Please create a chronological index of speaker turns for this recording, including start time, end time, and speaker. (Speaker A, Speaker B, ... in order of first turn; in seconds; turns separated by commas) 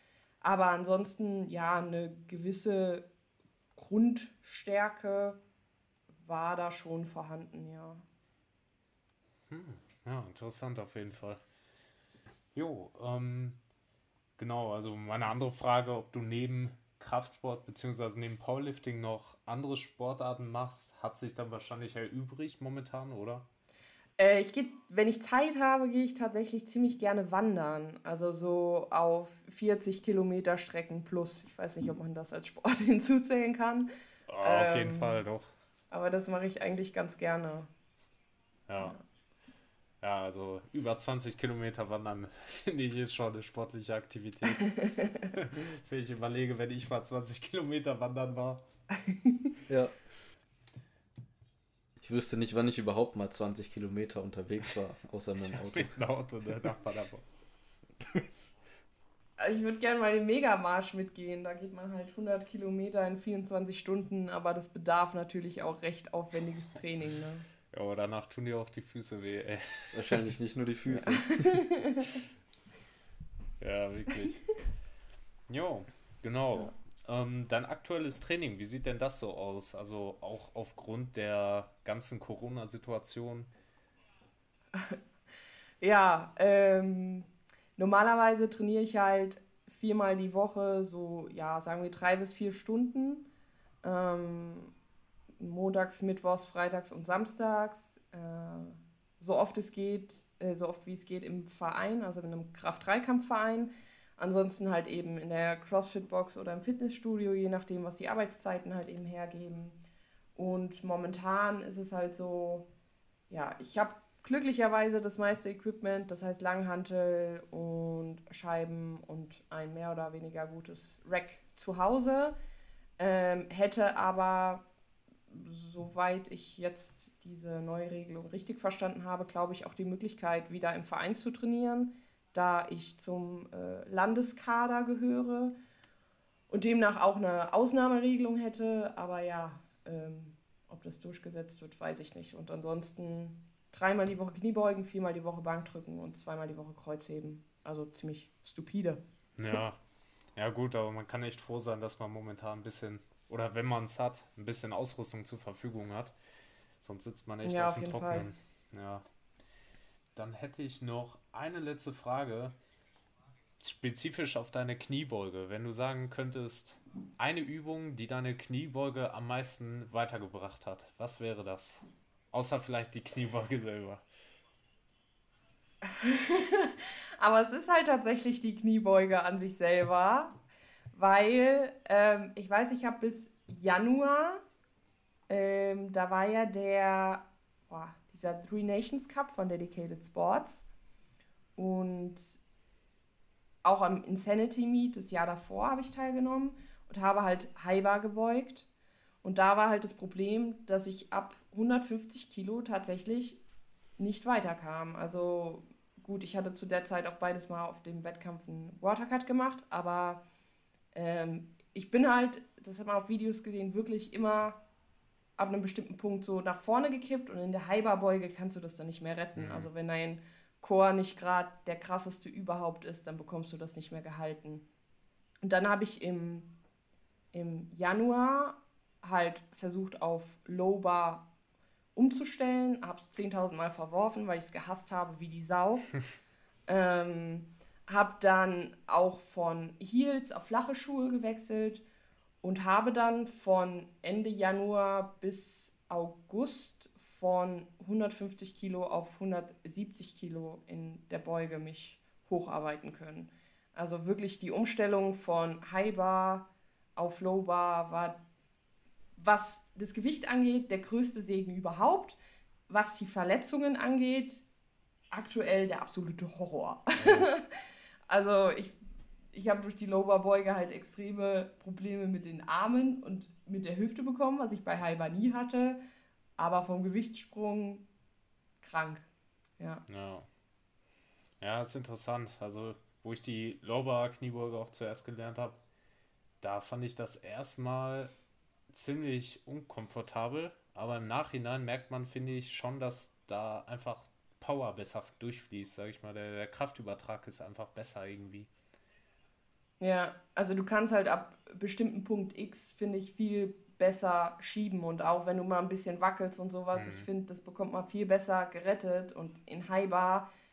Speaker A: 0.4-3.1, Speaker A: 3.8-5.4, Speaker A: 6.2-8.1, Speaker B: 9.5-11.4, Speaker B: 12.6-13.6, Speaker B: 14.4-23.5, Speaker A: 24.2-33.9, Speaker B: 34.3-35.5, Speaker A: 34.4-35.2, Speaker A: 35.9-37.7, Speaker B: 38.7-39.0, Speaker B: 40.0-48.6, Speaker A: 44.6-45.3, Speaker A: 49.0-49.5, Speaker C: 49.7-49.9, Speaker C: 52.0-56.0, Speaker B: 55.6-57.2, Speaker A: 59.4-67.5, Speaker B: 67.7-70.2, Speaker C: 69.9-71.7, Speaker A: 71.0-72.2, Speaker B: 73.6-74.5, Speaker B: 75.5-83.5, Speaker A: 85.8-93.3, Speaker A: 93.8-94.7, Speaker A: 95.4-109.8, Speaker A: 110.3-112.7, Speaker A: 113.3-122.3, Speaker A: 123.0-124.7, Speaker A: 125.3-135.6, Speaker A: 136.5-149.0, Speaker B: 149.4-149.8, Speaker B: 150.4-156.2, Speaker B: 156.8-159.1, Speaker A: 157.4-158.3, Speaker B: 160.2-162.6, Speaker B: 163.6-174.0, Speaker A: 175.9-180.4, Speaker A: 180.9-184.4, Speaker A: 185.3-190.7, Speaker A: 191.6-192.4, Speaker A: 193.6-198.7, Speaker A: 199.2-203.4, Speaker A: 204.0-210.2, Speaker A: 210.9-214.6, Speaker A: 215.4-224.7, Speaker B: 219.4-219.7, Speaker A: 225.4-226.5, Speaker A: 227.3-231.3, Speaker A: 231.9-235.9, Speaker A: 236.7-241.8, Speaker A: 242.4-258.2, Speaker A: 259.2-262.2, Speaker A: 262.7-264.4, Speaker A: 265.1-267.5, Speaker A: 268.1-268.8, Speaker A: 269.3-275.8, Speaker A: 276.4-277.9, Speaker A: 278.6-279.1, Speaker A: 279.6-279.9, Speaker B: 279.9-280.3, Speaker B: 281.4-285.6, Speaker B: 286.4-288.1, Speaker B: 288.7-298.5, Speaker A: 299.8-310.3, Speaker B: 306.7-307.1